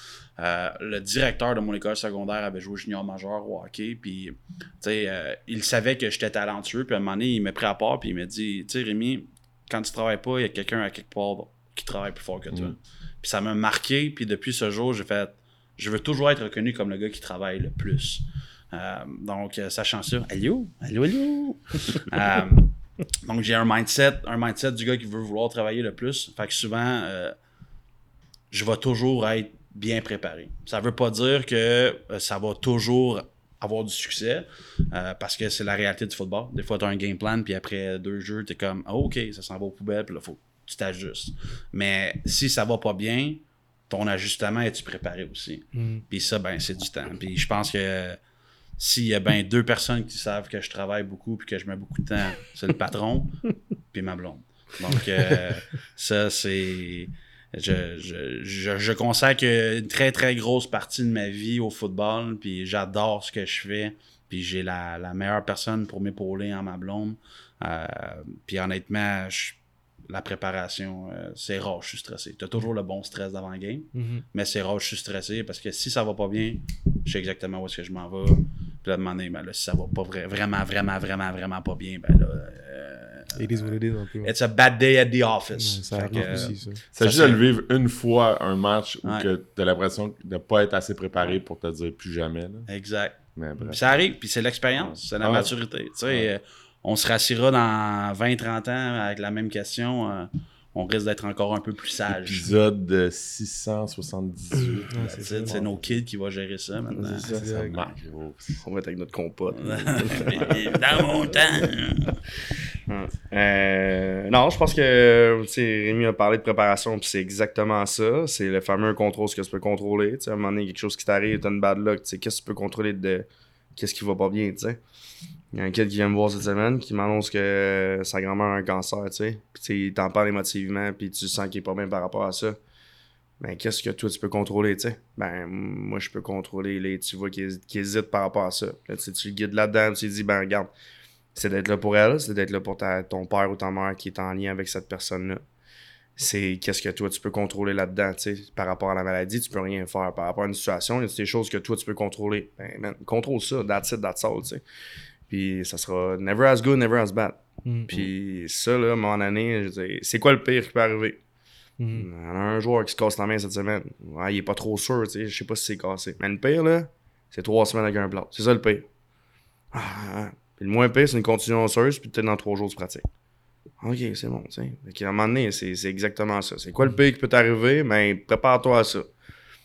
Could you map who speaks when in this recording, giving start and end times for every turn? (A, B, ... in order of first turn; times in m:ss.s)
0:00.4-0:27.4 A
0:12.5-0:12.8 B
0:28.5-0:48.2 A
0:45.7-0:46.0 C
0:48.8-1:27.4 A
1:13.9-1:14.2 C
1:23.3-1:24.3 C
1:25.5-1:26.8 C
1:26.2-1:32.7 B
1:29.0-1:29.3 A
1:32.7-1:42.5 A
1:33.3-1:33.9 B
1:34.7-1:35.5 B
1:42.1-1:46.0 B
1:44.9-1:45.7 C
1:45.0-1:47.9 A
1:46.9-1:47.4 D
1:47.1-1:47.8 C
1:47.2-1:48.6 B
1:48.6-1:50.6 D
1:49.5-1:52.2 A
1:52.9-2:04.8 D
2:05.5-2:12.6 D
2:13.4-2:20.7 D
2:21.3-2:25.4 D
2:26.2-2:34.6 D
2:35.3-2:41.2 D
2:37.6-2:38.0 C
2:41.8-2:42.1 C
2:41.9-2:48.9 D
2:49.7-2:53.1 D
2:53.8-2:59.1 D